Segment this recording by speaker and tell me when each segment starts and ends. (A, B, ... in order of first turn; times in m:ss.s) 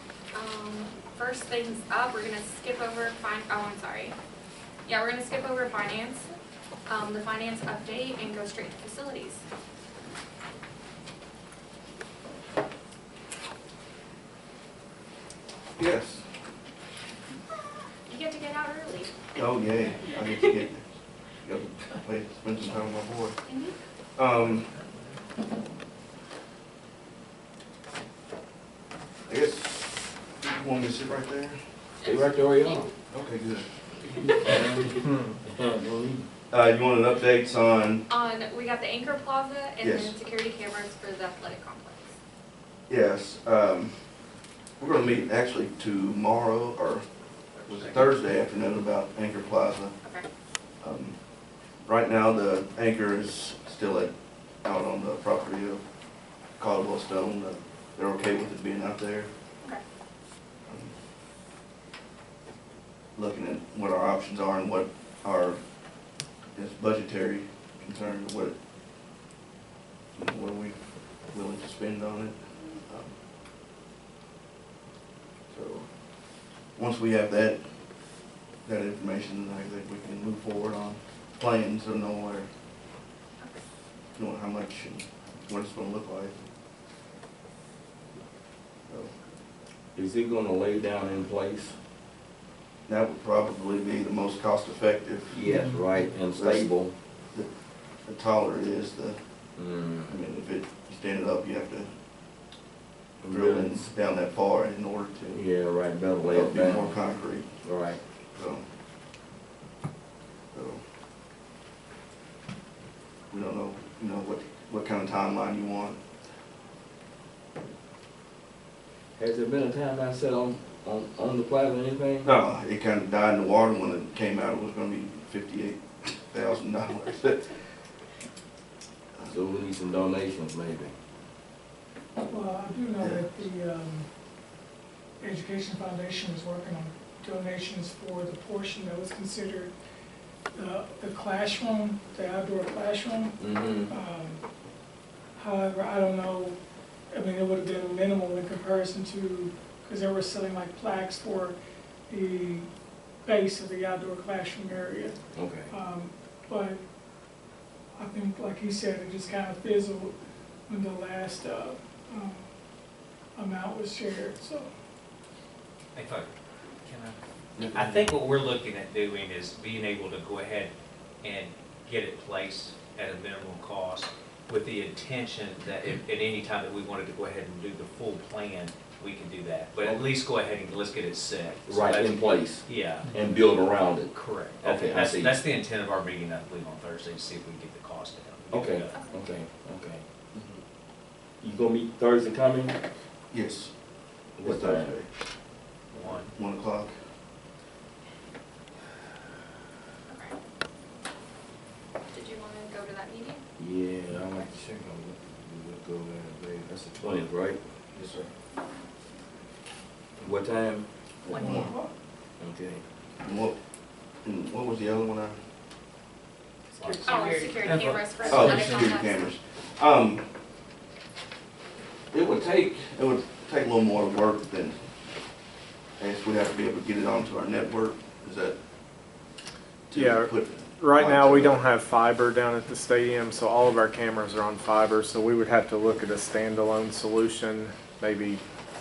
0:00.3-0:04.1 A
0:04.8-0:06.3 A
0:06.9-0:09.4 A
0:15.8-0:16.3 B
0:17.6-0:19.3 A
0:19.3-0:20.8 B
0:20.2-0:20.6 A
0:21.4-0:23.4 B
0:23.4-0:23.8 A
0:24.2-0:24.7 B
0:29.3-0:31.6 B
0:32.0-0:32.9 A
0:32.0-0:32.8 C
0:33.1-0:33.7 B
0:34.4-0:36.3 C
0:36.5-0:38.0 B
0:38.1-0:42.2 A
0:39.8-0:40.1 B
0:42.9-0:44.0 B
0:44.8-0:47.0 B
0:47.6-0:49.9 B
0:50.8-0:51.2 B
0:51.8-0:55.8 B
0:56.6-0:59.3 B
1:00.7-1:00.9 B
1:03.1-1:05.6 B
1:06.5-1:08.5 B
1:10.2-1:10.8 B
1:11.3-1:13.1 B
1:15.5-1:15.9 B
1:16.8-1:17.6 B
1:18.6-1:22.5 B
1:23.4-1:23.6 A
1:24.2-1:26.4 B
1:29.9-1:31.8 C
1:32.9-1:35.4 B
1:35.3-1:36.9 C
1:36.3-1:36.7 B
1:38.0-1:39.2 B
1:39.6-1:40.2 C
1:40.1-1:41.9 B
1:43.2-1:43.9 C
1:43.3-1:45.4 B
1:45.3-1:47.0 C
1:46.3-1:47.5 B
1:47.6-1:48.0 C
1:48.3-1:48.6 B
1:50.5-1:50.8 B
1:53.3-1:56.0 B
1:59.2-2:02.3 C
2:02.2-2:07.6 B
2:09.2-2:10.9 C
2:12.2-2:14.1 D
2:13.0-2:13.3 B
2:15.2-2:19.7 D
2:20.5-2:24.4 D
2:23.4-2:23.9 C
2:25.4-2:26.6 D
2:27.1-2:31.6 D
2:32.1-2:32.7 D
2:33.2-2:35.2 D
2:35.3-2:35.7 C
2:35.7-2:36.8 D
2:38.0-2:40.1 D
2:40.7-2:42.5 D
2:43.4-2:44.7 D
2:45.9-2:46.3 E
2:46.8-2:47.2 E
2:47.6-2:48.1 B
2:47.7-3:09.0 E
3:01.7-3:05.4 C
3:08.5-3:10.0 C
3:08.9-3:09.2 A
3:11.4-3:12.8 C
3:13.3-3:13.7 B
3:14.4-3:15.0 C
3:14.4-3:15.1 B
3:15.9-3:16.3 E
3:16.0-3:16.9 B
3:20.1-3:20.4 A
3:22.1-3:23.4 A
3:23.6-3:27.6 C
3:28.0-3:28.3 B
3:30.2-3:30.9 C
3:31.2-3:31.7 B
3:31.3-3:31.9 D
3:31.4-3:31.7 A
3:32.4-3:32.8 C
3:33.2-3:33.6 B
3:34.2-3:35.4 B
3:36.7-3:38.9 E
3:37.0-3:39.2 A
3:38.2-3:40.3 B
3:42.1-3:44.8 B
3:46.0-3:48.6 B
3:49.9-3:51.6 B
3:49.9-3:58.4 F